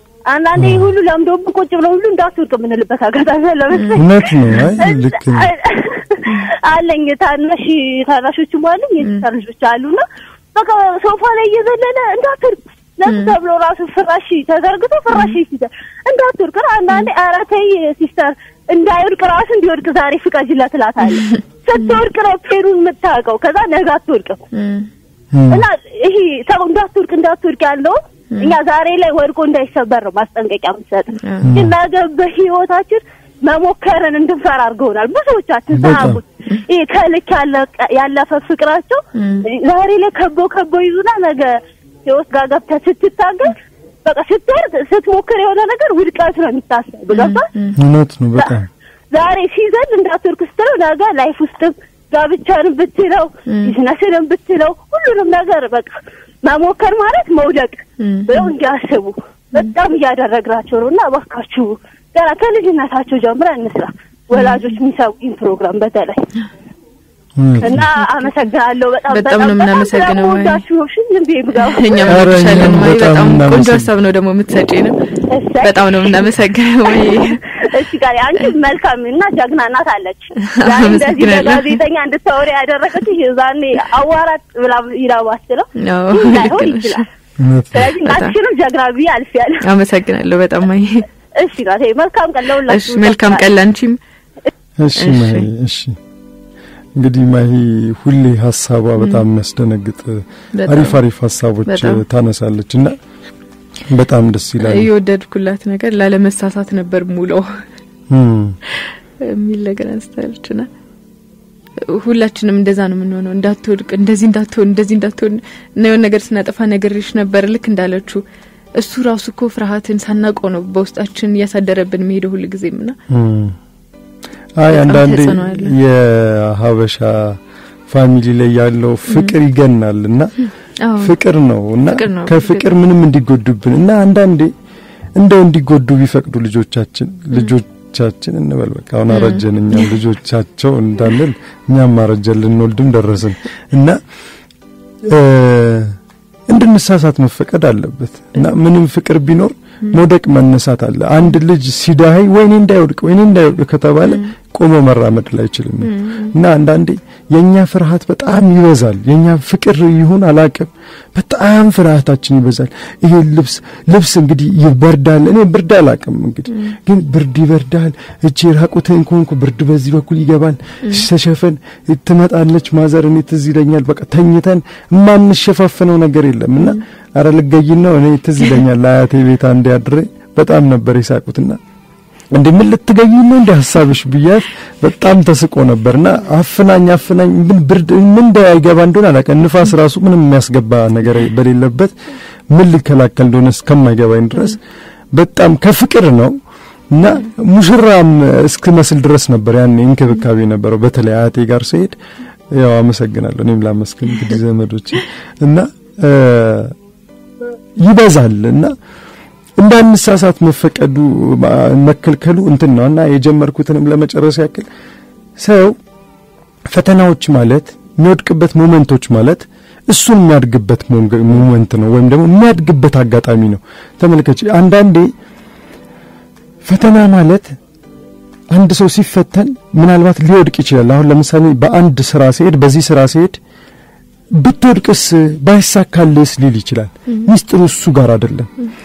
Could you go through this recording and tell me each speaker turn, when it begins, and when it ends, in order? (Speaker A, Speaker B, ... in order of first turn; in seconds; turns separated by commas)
Speaker A: 0.3-24.4, Speaker B: 0.6-0.9, Speaker C: 3.7-4.0, Speaker B: 4.0-5.5, Speaker C: 13.1-13.3, Speaker C: 21.2-22.0, Speaker C: 24.5-24.9, Speaker B: 25.3-25.7, Speaker A: 25.5-47.5, Speaker C: 31.2-31.5, Speaker B: 31.4-31.8, Speaker B: 35.7-36.2, Speaker C: 39.1-39.4, Speaker C: 47.1-47.8, Speaker B: 47.8-48.7, Speaker A: 49.1-66.3, Speaker C: 53.5-53.7, Speaker C: 58.0-58.5, Speaker C: 64.3-64.6, Speaker B: 67.4-67.9, Speaker C: 67.6-68.3, Speaker A: 67.6-72.2, Speaker C: 69.1-70.6, Speaker C: 71.6-75.0, Speaker B: 72.1-73.9, Speaker A: 75.3-76.3, Speaker C: 75.6-77.4, Speaker A: 76.9-87.1, Speaker C: 80.4-81.8, Speaker C: 85.8-87.0, Speaker B: 87.4-87.9, Speaker A: 87.7-89.6, Speaker C: 88.0-88.3, Speaker C: 89.6-91.0, Speaker A: 91.3-93.5, Speaker C: 92.7-94.0, Speaker B: 94.8-96.0, Speaker C: 95.0-95.5, Speaker B: 96.9-102.9, Speaker C: 100.5-101.0, Speaker C: 101.7-102.0, Speaker B: 103.9-104.9, Speaker C: 104.6-107.6, Speaker B: 108.1-108.6, Speaker C: 108.8-110.7, Speaker C: 111.9-118.2, Speaker C: 118.8-123.0, Speaker B: 123.1-123.6, Speaker B: 124.6-130.3, Speaker C: 124.7-125.7, Speaker C: 129.1-129.3, Speaker C: 130.4-131.1, Speaker B: 131.0-134.5, Speaker C: 131.9-132.7, Speaker B: 135.2-144.0, Speaker C: 139.1-139.9, Speaker B: 145.1-146.0, Speaker B: 146.5-181.6, Speaker C: 155.8-156.3, Speaker B: 182.3-191.9, Speaker B: 192.5-194.6, Speaker B: 195.1-196.4, Speaker B: 196.9-202.0, Speaker B: 202.5-206.8, Speaker B: 207.8-208.7, Speaker B: 209.6-214.7, Speaker B: 215.4-215.8, Speaker B: 216.7-225.1, Speaker B: 226.6-227.6, Speaker B: 228.5-233.4, Speaker B: 234.3-238.5